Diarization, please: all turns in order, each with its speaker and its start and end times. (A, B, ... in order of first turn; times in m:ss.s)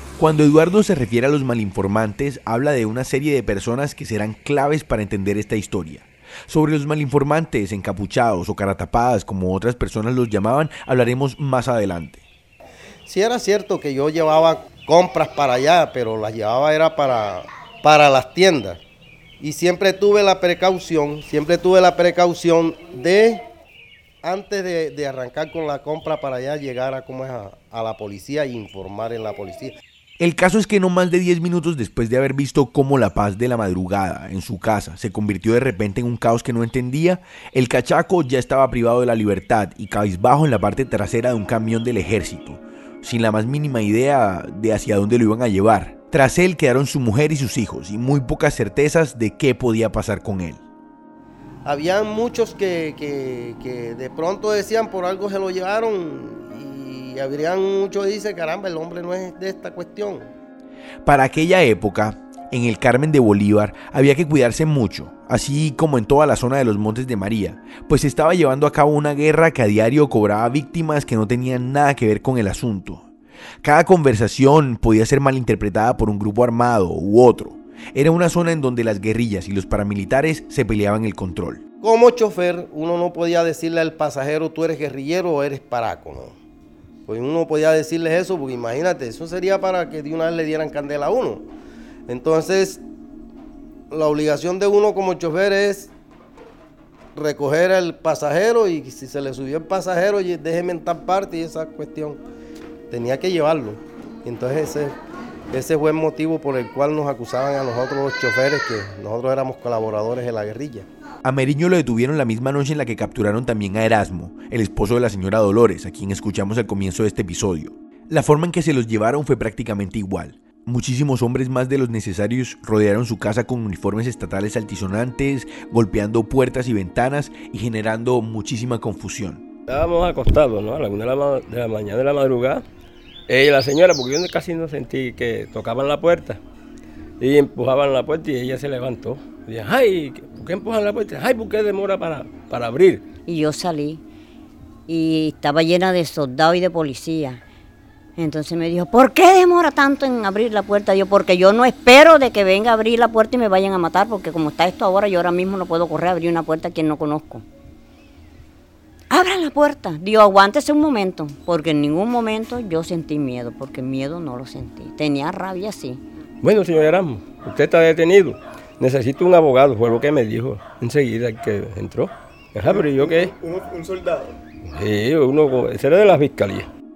0:00.2-0:12.2 A
0:13.0-0:18.8 B
0:19.4-0:23.4 B
0:24.2-0:29.7 B
0:30.2-0:50.6 A
0:51.6-1:00.3 B
1:01.0-1:13.0 A
1:13.6-1:21.6 A
1:21.8-1:26.4 B
1:27.1-1:31.5 B
1:32.1-1:32.8 B
1:33.9-1:35.9 B
1:37.1-1:42.2 B
1:42.9-1:44.9 B
1:45.5-1:50.9 B
1:51.2-2:09.4 A
2:09.7-2:12.6 C
2:13.3-2:16.4 C
2:17.2-2:23.0 C
2:23.3-2:24.0 D
2:24.9-2:27.4 D
2:28.2-2:37.4 D
2:39.1-2:46.0 D
2:46.4-2:53.9 C
2:54.6-2:56.7 C